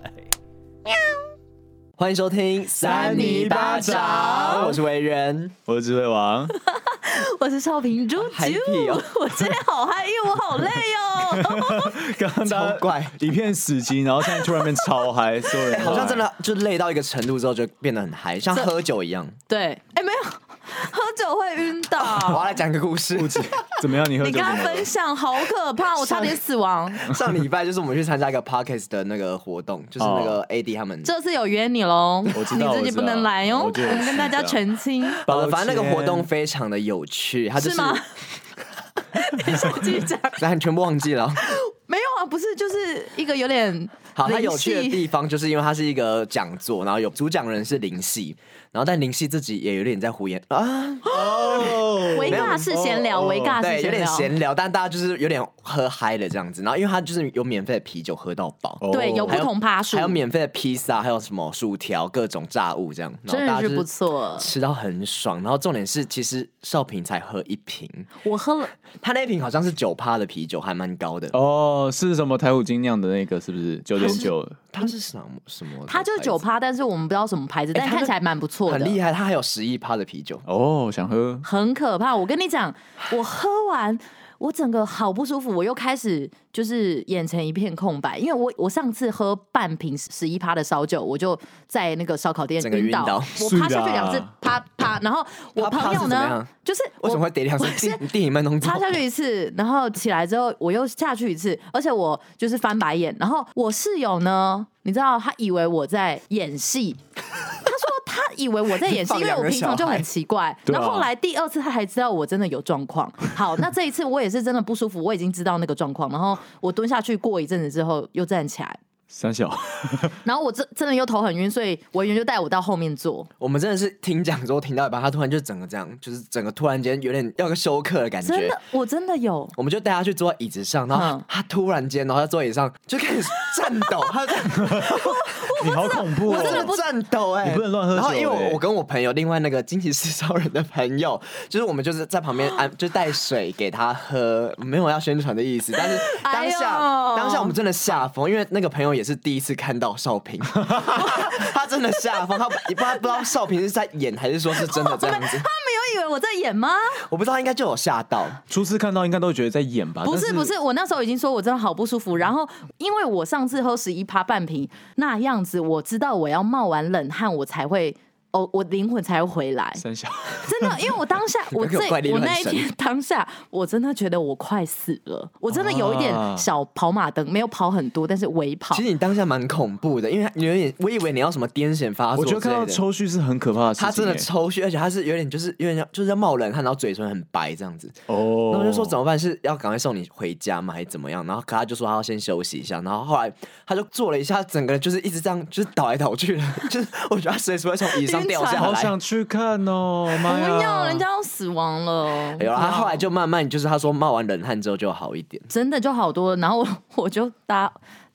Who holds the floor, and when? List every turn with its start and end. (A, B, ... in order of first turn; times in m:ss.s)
0:00.9-0:01.2 A
0:02.0-0:05.5 B
0:02.8-0:04.7 A
0:02.8-0:04.8 C
0:05.6-0:06.5 C
0:06.6-0:12.0 A
0:08.2-0:09.1 B
0:11.2-0:16.3 C
0:12.4-0:13.2 B
0:14.3-0:15.0 A
0:15.7-0:19.4 B
0:19.5-0:22.4 A
0:22.0-0:23.6 B
0:23.1-0:24.9 C
0:24.2-0:27.1 A
0:25.9-0:26.4 B
0:27.0-0:31.1 B
0:30.0-0:30.4 C
0:31.0-0:35.2 A
0:32.3-0:34.6 C
0:35.2-0:38.0 B
0:35.2-0:36.3 C
0:37.6-0:38.1 A
0:39.1-0:40.4 A
0:40.4-0:41.4 B
0:41.4-0:45.0 A
0:44.1-0:52.9 B
0:51.1-0:53.5 C
0:51.2-0:54.3 A
0:53.6-1:03.9 B
0:58.8-0:59.4 C
0:58.9-1:00.2 A
1:03.3-1:04.5 A
1:04.4-1:08.1 B
1:08.2-1:08.7 A
1:09.0-1:11.3 B
1:11.3-1:14.6 C
1:14.0-1:16.4 B
1:15.9-1:19.0 A
1:17.7-1:18.1 B
1:18.7-1:20.4 B
1:20.4-1:21.4 C
1:21.4-1:38.0 A
1:32.6-1:33.4 B
1:33.4-1:34.3 C
1:35.6-1:39.0 B
1:38.6-1:47.0 A
1:47.6-1:58.8 A
1:48.7-1:50.1 B
1:50.6-1:51.1 C
1:59.1-2:00.2 C
2:00.2-2:03.3 A
2:03.4-2:08.6 B
2:08.2-2:09.5 A
2:09.6-2:15.4 B
2:10.9-2:11.2 A
2:14.5-2:14.9 C
2:14.8-2:16.8 A
2:15.4-2:16.7 C
2:16.3-2:35.5 B
2:17.4-2:18.6 C
2:25.7-2:27.5 A
2:30.9-2:31.3 A
2:32.8-2:33.1 A
2:34.5-2:37.0 A
2:37.1-2:38.4 B
2:38.5-2:40.5 C
2:40.0-2:49.8 A
2:49.8-2:50.8 C
2:50.4-2:58.8 A
2:51.5-2:52.6 B
2:55.5-2:56.5 C
2:58.7-3:02.8 B
3:02.1-3:04.3 C
3:03.8-3:18.9 B
3:08.1-3:09.0 C
3:18.0-3:18.8 A
3:18.5-3:21.0 C
3:20.1-3:23.0 A
3:22.4-3:25.5 B
3:25.5-3:27.8 A